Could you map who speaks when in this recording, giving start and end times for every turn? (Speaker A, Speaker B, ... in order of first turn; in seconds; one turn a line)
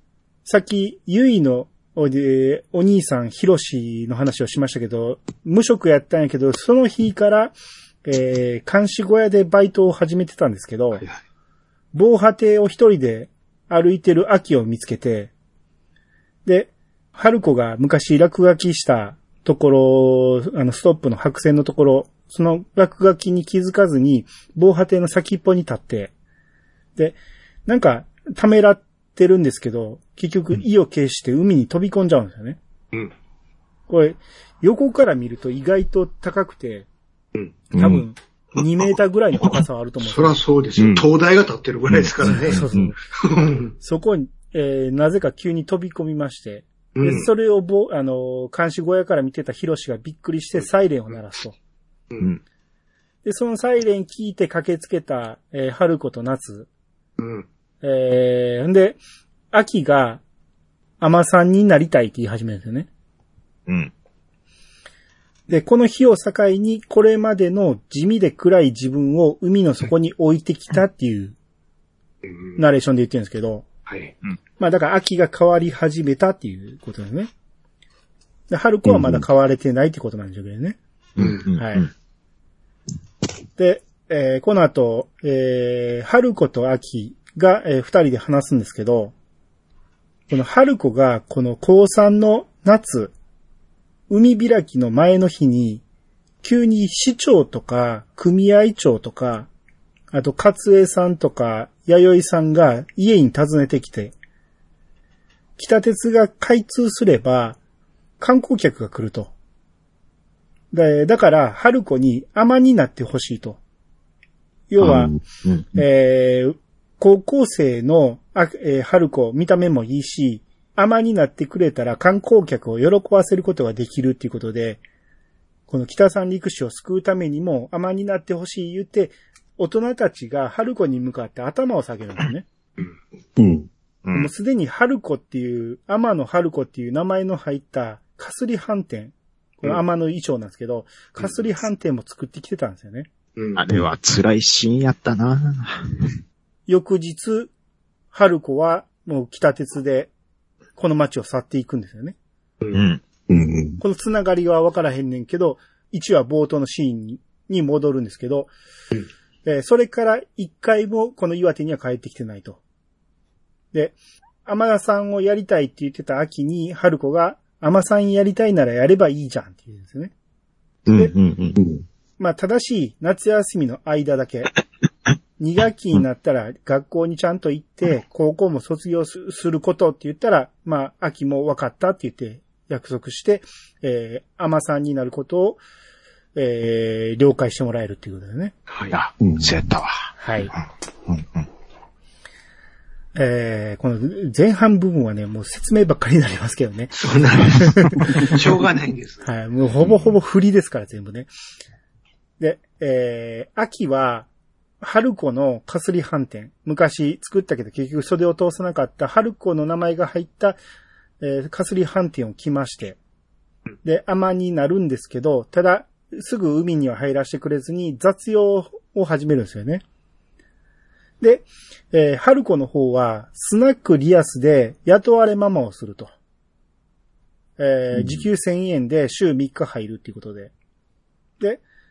Speaker A: 0.4-7.5
Speaker A: 8.0-11.0
Speaker A: 11.9-15.3
Speaker A: 16.4-26.1
Speaker A: 26.9-32.6
Speaker A: 33.9-36.9
Speaker B: 37.7-38.0
Speaker A: 37.7-40.4
Speaker C: 40.0-43.7
Speaker B: 40.8-41.0
Speaker B: 41.9-42.9
Speaker A: 42.3-43.0
Speaker A: 43.8-51.6
Speaker C: 47.0-47.3
Speaker A: 53.2-56.7
Speaker C: 57.2-57.5
Speaker A: 57.8-59.0
Speaker A: 59.5-60.2
Speaker A: 61.0-62.9
Speaker B: 63.7-63.9
Speaker A: 65.5-71.3
Speaker C: 72.3-72.5
Speaker A: 72.6-73.7
Speaker C: 73.9-74.1
Speaker A: 74.6-77.3
Speaker A: 78.5-80.8
Speaker D: 78.8-79.2
Speaker B: 81.2-81.9
Speaker C: 81.2-81.5
Speaker A: 81.5-81.9
Speaker A: 83.6-89.1
Speaker A: 90.3-93.1
Speaker A: 94.1-95.8
Speaker A: 96.4-99.5
Speaker A: 100.1-104.1
Speaker A: 105.6-107.6
Speaker A: 108.2-109.3
Speaker A: 110.7-113.6
Speaker A: 114.7-115.1
Speaker D: 114.8-115.2
Speaker A: 115.7-124.8
Speaker A: 125.7-132.4
Speaker D: 133.4-133.7
Speaker B: 134.0-134.3
Speaker A: 134.1-143.1
Speaker C: 143.3-143.6
Speaker B: 143.6-146.1
Speaker A: 146.7-147.5
Speaker A: 148.1-150.1
Speaker A: 150.8-152.1
Speaker B: 152.7-153.0
Speaker D: 153.3-153.8
Speaker A: 153.8-158.5
Speaker A: 159.4-162.6
Speaker A: 164.4-170.1
Speaker B: 170.9-171.6
Speaker D: 171.6-171.8
Speaker A: 172.2-174.5
Speaker A: 175.4-185.6
Speaker A: 186.3-188.5
Speaker C: 188.7-188.9
Speaker B: 188.9-190.1
Speaker D: 189.2-189.5
Speaker A: 190.2-190.5
Speaker A: 193.2-198.3
Speaker C: 196.9-199.2
Speaker A: 199.2-201.3
Speaker A: 202.4-204.3
Speaker A: 204.8-210.6
Speaker A: 211.2-213.0
Speaker A: 213.8-219.8
Speaker A: 221.2-226.1
Speaker A: 227.6-230.5
Speaker D: 227.9-228.2